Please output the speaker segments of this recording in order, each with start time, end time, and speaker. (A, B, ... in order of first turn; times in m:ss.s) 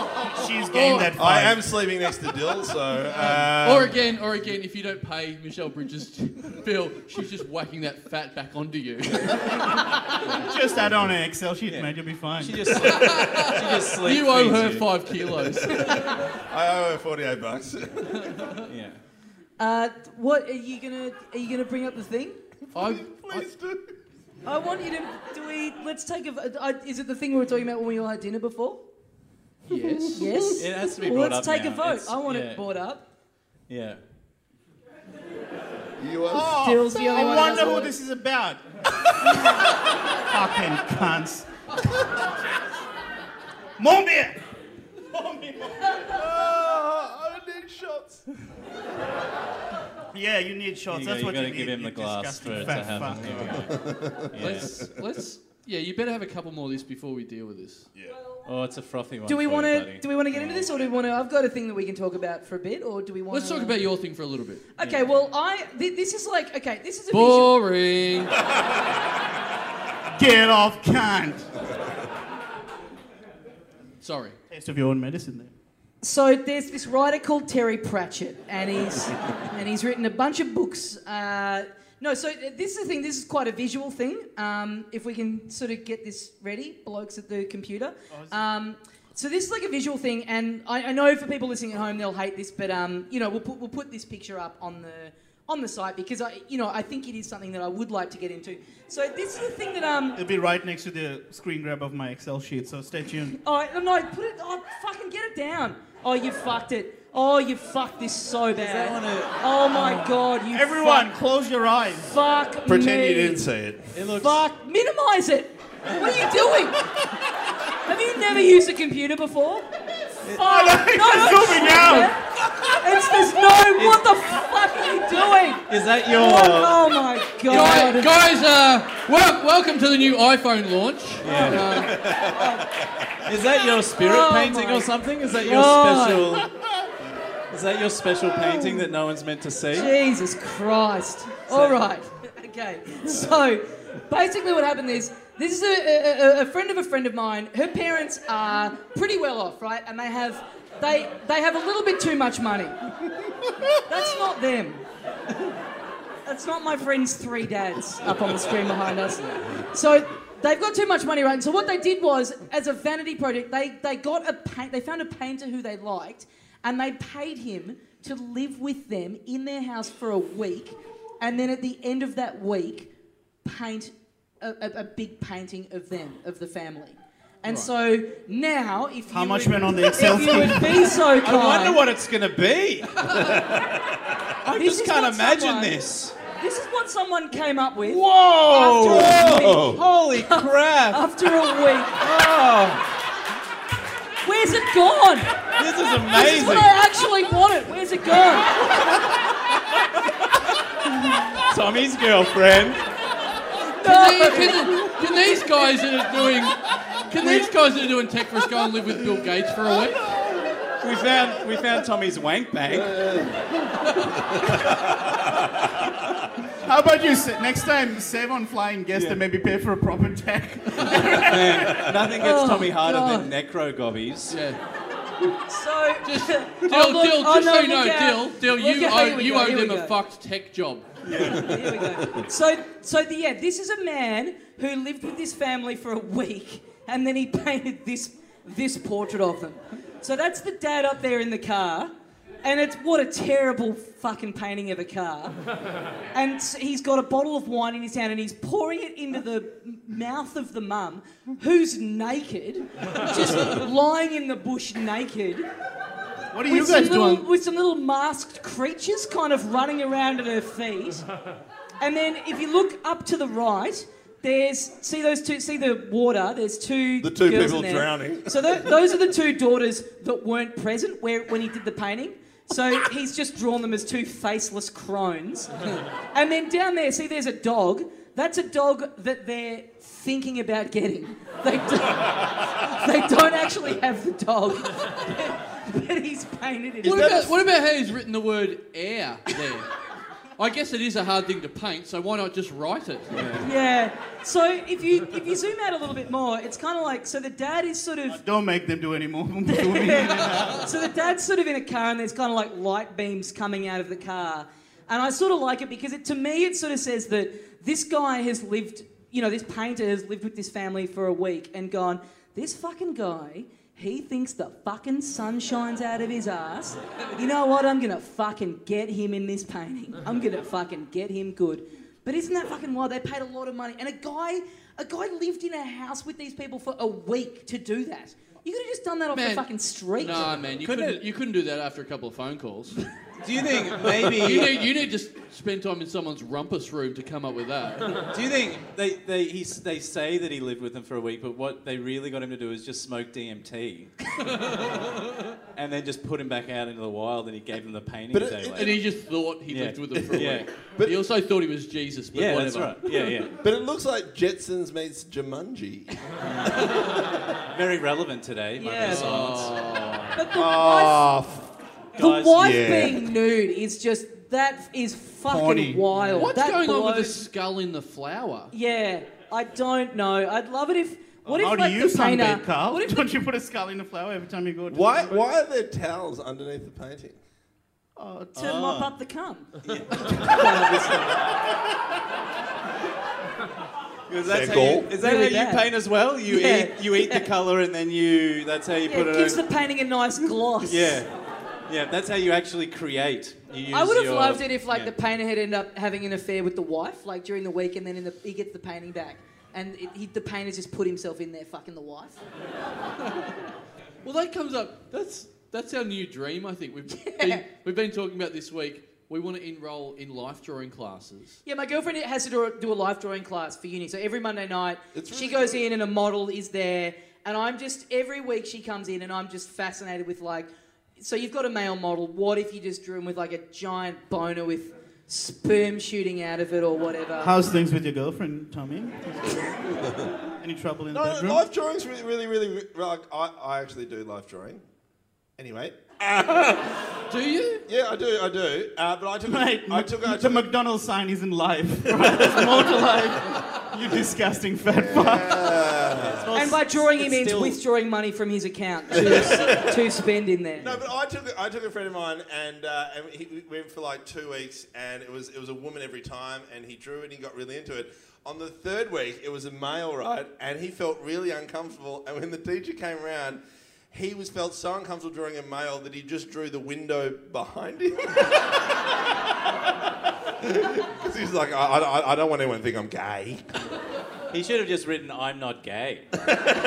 0:00.2-0:01.6 A
0:00.7-0:01.1 B
0:01.1-0:04.0 C
0:03.3-0:10.1 B
0:10.3-0:12.8 A
0:11.7-0:14.9 D
0:12.8-0:16.3 B
0:15.4-0:18.5 C
0:18.3-0:18.6 B
0:18.7-0:19.0 D
0:19.6-0:22.4 E
0:22.7-0:24.0 C
0:22.7-0:23.5 B
0:24.4-0:28.8 E
0:29.7-0:30.3 B
0:30.1-0:33.0 E
0:30.6-0:32.6 D
0:33.7-0:34.0 D
0:36.0-0:36.7 C
0:36.3-0:39.6 A
0:36.3-0:38.0 E
0:40.3-0:41.5 A
0:43.8-0:44.4 A
0:45.0-0:46.1 A
0:46.1-0:48.3 C
0:50.1-0:53.7 A
0:50.9-0:54.9 D
0:53.2-0:54.9 C
0:54.4-0:57.9 B
0:58.1-0:58.4 E
0:58.4-1:00.7 D
0:59.3-1:03.8 E
1:03.3-1:04.7 B
1:04.7-1:07.5 E
1:07.1-1:08.4 B
1:10.2-1:11.5 A
1:14.0-1:14.4 B
1:14.5-1:15.5 A
1:16.0-1:40.2 E
1:28.1-1:28.4 A
1:40.2-1:43.4 A
1:43.4-1:51.1 E
1:48.6-1:50.1 D
1:50.5-1:52.1 A
1:52.0-1:53.4 E
1:52.7-1:54.0 C
1:53.9-1:54.4 D
1:54.1-1:56.9 E
1:57.8-1:59.7 E
2:00.2-2:00.5 D
2:00.3-2:02.2 E
2:00.4-2:02.2 A
2:02.8-2:08.1 E
2:03.7-2:04.1 D
2:05.7-2:06.8 D
2:07.5-2:12.0 B
2:11.2-2:11.9 D
2:11.2-2:12.7 E
2:11.7-2:13.3 C
2:13.3-2:16.5 D
2:14.0-2:16.4 E
2:17.5-2:19.9 D
2:19.7-2:32.8 E
2:21.5-2:21.8 D
2:33.8-2:34.8 E
2:36.3-2:52.9 E
2:53.4-3:01.8 E
2:57.4-2:57.7 B
2:59.1-3:01.0 A
3:01.1-3:03.4 D
3:03.8-3:04.2 C
3:04.4-3:06.2 D
3:04.5-3:05.8 E
3:06.4-3:12.0 E
3:07.8-3:11.0 D
3:09.1-3:09.8 C
3:12.0-3:12.8 D
3:14.2-3:15.4 E
3:15.5-3:16.7 D
3:16.0-3:18.7 E
3:18.7-3:19.1 D
3:20.9-3:22.9 D
3:23.8-3:24.7 E
3:23.8-3:30.1 B
3:30.1-3:30.6 C
3:30.8-3:33.2 D
3:32.7-3:35.9 C
3:36.5-3:41.9 A
3:38.9-3:39.2 D
3:41.1-3:44.4 D
3:41.7-3:41.9 C
3:42.0-3:43.3 E
3:44.3-3:44.6 B
3:45.3-3:49.9 E
3:46.0-3:51.2 B
3:51.0-3:52.0 D
3:51.2-4:01.9 E
4:02.4-4:05.4 E
4:06.1-4:15.5 E
4:16.3-4:17.3 A
4:16.5-4:21.0 E
4:21.8-4:47.3 E
4:27.0-4:28.7 C
4:46.8-4:49.7 B
4:46.9-4:47.3 C
4:50.4-4:53.5 B
4:53.1-4:53.5 D
4:53.4-4:58.2 E
4:58.1-5:00.7 A
4:59.5-5:30.3 E
5:29.1-5:32.8 B
5:30.6-5:31.0 D
5:33.2-5:34.7 D
5:33.8-5:38.0 B
5:38.0-5:44.6 D
5:44.2-5:45.3 B
5:45.6-5:48.8 D
5:48.1-5:48.8 C
5:48.6-5:52.9 B
5:49.5-5:50.5 D
5:52.1-5:53.4 D
5:53.4-5:56.2 C
5:56.2-6:00.2 D
5:58.6-5:59.2 E
5:58.8-6:00.0 B
6:00.1-6:01.1 E
6:00.3-6:01.5 C
6:02.0-6:02.9 D
6:02.0-6:07.3 E
6:02.3-6:03.0 C
6:05.3-6:05.9 A
6:06.1-6:08.5 B
6:08.5-6:13.0 E
6:11.2-6:15.2 A
6:14.7-6:17.2 C
6:18.0-6:18.5 A
6:18.4-6:18.9 D
6:18.4-6:21.1 E
6:19.6-6:21.0 D
6:24.1-6:29.4 D
6:24.2-6:24.9 C
6:25.0-6:25.7 E
6:26.2-6:27.3 E
6:28.8-6:31.0 E
6:30.6-6:31.1 D
6:31.7-6:34.9 D
6:33.7-6:42.2 E
6:43.1-6:43.4 B
6:44.0-6:51.4 B
6:46.9-6:47.4 E
6:51.4-7:07.3 E
6:54.9-6:55.6 C
7:07.2-7:11.4 A
7:10.9-7:14.6 C
7:15.4-7:17.0 C
7:17.1-7:17.6 B
7:17.7-7:20.5 C
7:19.3-7:25.8 A
7:22.0-7:22.7 C
7:24.7-7:26.3 C
7:26.0-7:27.6 D
7:26.3-7:30.8 E
7:29.1-7:29.4 C
7:30.6-7:48.8 C
7:50.4-7:53.5 C
7:54.3-7:56.1 D